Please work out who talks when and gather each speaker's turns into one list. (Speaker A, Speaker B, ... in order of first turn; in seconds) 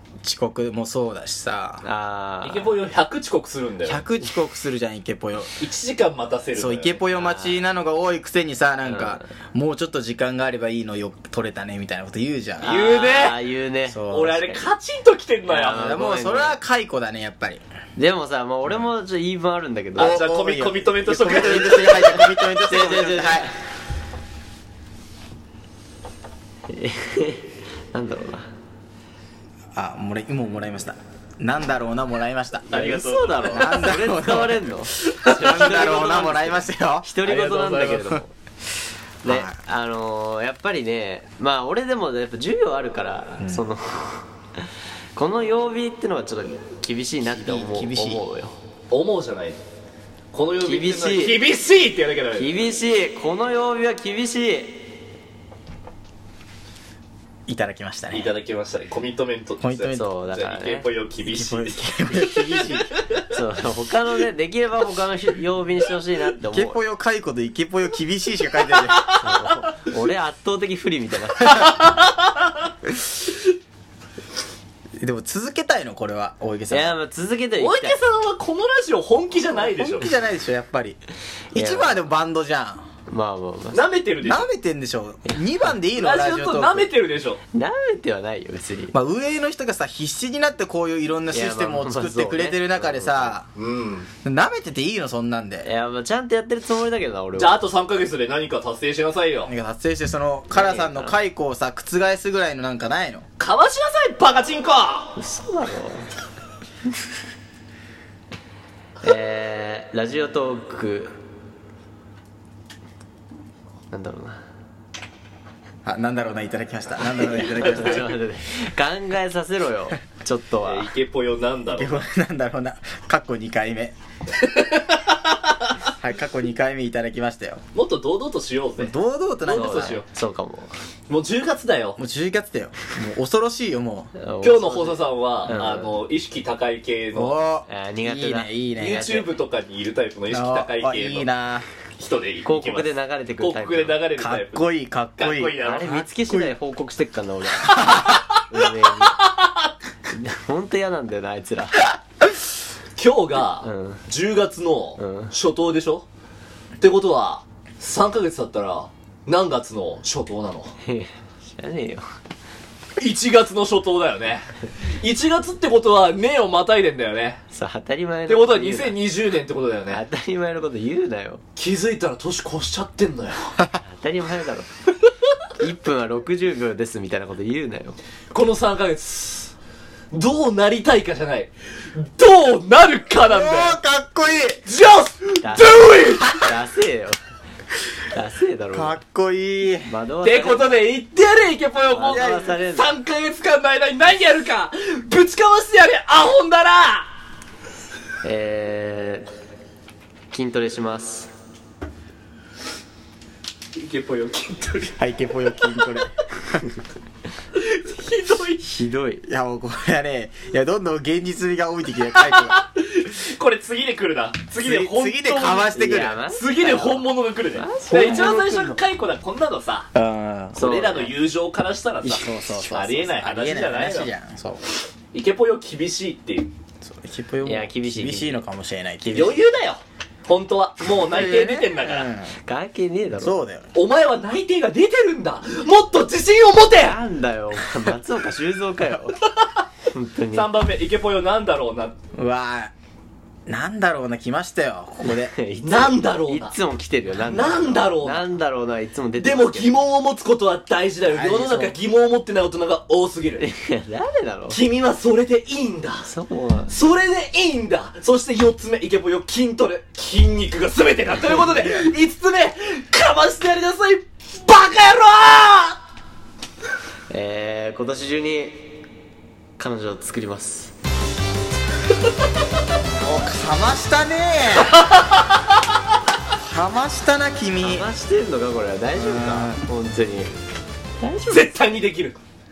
Speaker A: 0.2-1.8, 3.9-5.6, 6.5-12.8, 13.9-14.3, 15.6-17.6, 20.0-23.5, 29.8-32.7, 33.4-37.1, 39.2-39.6, 43.4-43.6, 47.2-48.2, 57.5-58.3, 59.6-60.1, 61.2-62.9, 66.5-69.2, 75.0-77.0, 79.5-81.0, 81.5-82.9, 84.2-86.9, 88.9-93.5, 94.2-95.7, 99.5-103.2, 115.8-118.1, 121.8-123.9, 125.9-127.6, 128.8-130.0, 132.0-134.1, 137.1-139.1, 140.3-141.7, 144.2-146.6, 147.7-148.2, 183.3-184.6, 188.7-189.9, 192.1-192.5, 205.0-206.6, 209.2-212.6, 214.6-216.2, 217.9-218.3, 219.9-220.6, 222.0-224.6, 226.8-229.4, 231.1-232.3, 233.2-233.7, 242.2-242.7, 243.5-245.3, 251.1-251.8, 261.6-261.9, 273.0-274.8, 276.4-277.9, 278.9-279.6
Speaker B: 1.8-2.7, 7.1-7.7, 8.8-9.3, 12.6-14.7, 15.5-16.6, 18.0-20.2, 21.4-23.6, 26.7-28.5, 32.7-38.3, 39.2-44.3, 45.1-48.6, 50.6-51.4, 52.3-54.9, 59.9-60.9, 63.3-66.8, 69.2-71.8, 76.7-78.0, 81.5-82.1, 83.1-83.9, 85.2-85.7, 87.5-89.0, 91.3-93.4, 95.6-97.6, 100.5-101.2, 105.2-106.1, 109.0-111.2, 113.9-114.4, 117.2-120.9, 129.4-130.7, 134.2-136.0, 137.7-139.4, 142.4-144.0, 145.6-149.2, 150.1-151.9, 153.6-154.0, 155.0-155.3, 160.8-162.1, 167.5-169.0, 169.9-171.4, 173.8-174.7, 175.6-178.0, 185.4-187.2, 188.1-189.0, 189.8-190.8, 191.9-192.9, 198.2-199.3, 200.3-201.3, 208.6-209.2, 215.7-218.8, 220.6-221.2, 227.4-228.4, 232.3-233.4, 236.8-239.2, 239.9-240.5, 245.0-249.8, 253.4-254.6, 256.0-256.8, 267.1-268.8, 269.6-270.7, 277.6-280.4, 281.0-281.6
Speaker C: 2.4-4.1, 5.6-7.0, 12.6-13.4, 14.1-16.0, 20.0-22.3, 32.7-33.8, 35.2-35.9, 37.2-38.2, 48.9-49.6, 50.3-52.5, 58.1-63.2, 68.7-69.7, 71.5-72.6, 77.6-80.1, 83.7-84.5, 86.0-87.4, 93.5-94.1, 97.3-99.5, 103.4-105.2, 117.5-118.0, 120.6-122.0, 124.4-125.7, 127.7-130.1, 131.1-132.0, 134.4-137.4, 138.8-141.3, 142.0-146.0, 147.9-148.3, 149.1-149.4, 153.0-156.1, 156.8-160.8, 163.0-167.4, 168.3-170.0, 171.6-173.6, 178.3-179.5, 180.1-183.8, 184.7-186.5, 190.2-197.1, 203.8-205.0, 205.7-206.0, 207.5-208.6, 212.2-219.9, 220.5-224.1, 225.1-226.5, 229.1-232.1, 233.7-237.0, 240.3-242.0, 245.6-246.6, 247.2-248.3, 249.2-253.5, 254.5-256.1, 256.7-265.8, 274.6-275.4, 281.3-282.2